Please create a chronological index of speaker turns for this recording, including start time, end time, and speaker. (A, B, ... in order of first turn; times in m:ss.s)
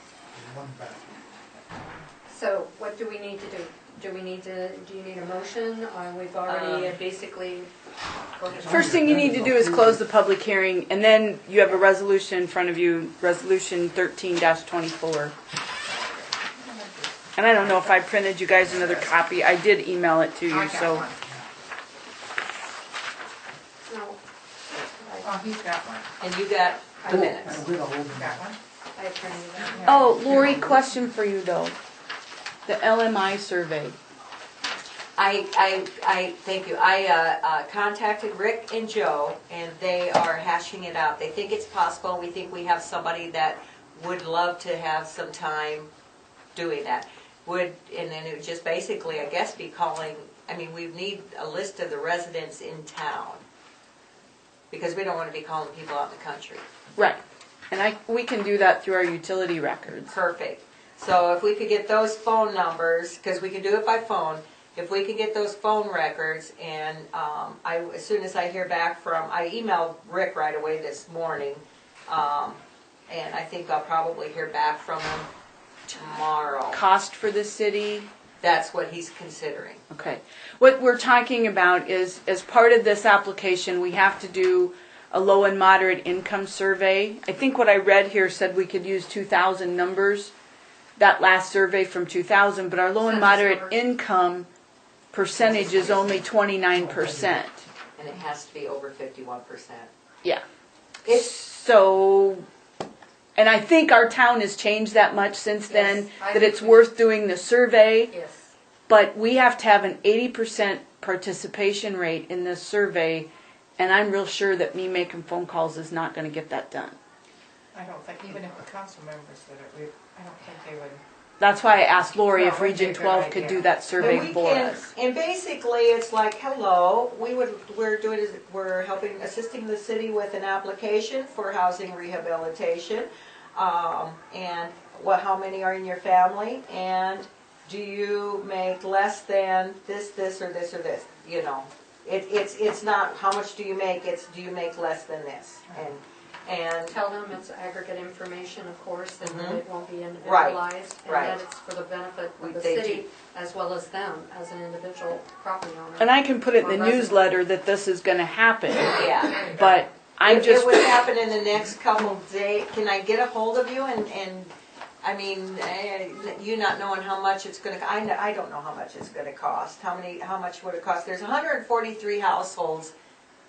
0:00.3-0:01.2 A
0:02.3-0:07.7 B
0:06.4-0:07.0 C
0:08.4-0:08.9 B
0:08.4-0:10.0 A
0:08.7-0:15.3 D
0:16.2-0:18.0 E
0:17.4-0:21.0 D
0:18.8-0:19.1 E
0:20.5-0:21.2 E
0:23.8-0:25.3 B
0:25.2-0:26.1 E
0:26.2-0:27.6 C
0:27.0-0:27.3 B
0:27.0-0:28.4 A
0:28.1-0:28.6 E
0:28.9-0:30.6 B
0:29.5-0:30.7 E
0:29.8-0:31.8 D
0:32.6-0:34.0 D
0:35.2-0:45.9 C
0:46.5-0:53.4 C
0:54.7-0:56.6 C
0:57.7-1:00.1 D
1:00.1-1:15.3 C
1:15.9-1:16.8 C
1:16.7-1:18.1 D
1:18.4-1:19.8 C
1:19.9-1:30.3 D
1:31.0-1:34.5 D
1:33.0-1:33.8 B
1:35.1-1:37.6 D
1:35.5-1:35.9 C
1:36.7-1:37.4 A
1:38.0-1:39.9 C
1:41.0-1:41.4 C
1:41.1-1:42.4 D
1:43.4-1:48.1 D
1:45.7-1:46.9 B
1:48.1-1:48.5 B
1:48.9-1:57.0 D
1:57.7-2:01.0 E
2:01.4-2:04.9 D
2:02.2-2:04.2 E
2:04.0-2:26.9 C
2:26.9-2:37.2 B
2:29.2-2:29.6 C
2:30.2-2:31.4 C
2:32.4-2:33.0 C
2:36.0-2:41.0 D
2:38.9-2:39.6 C
2:40.2-2:52.9 C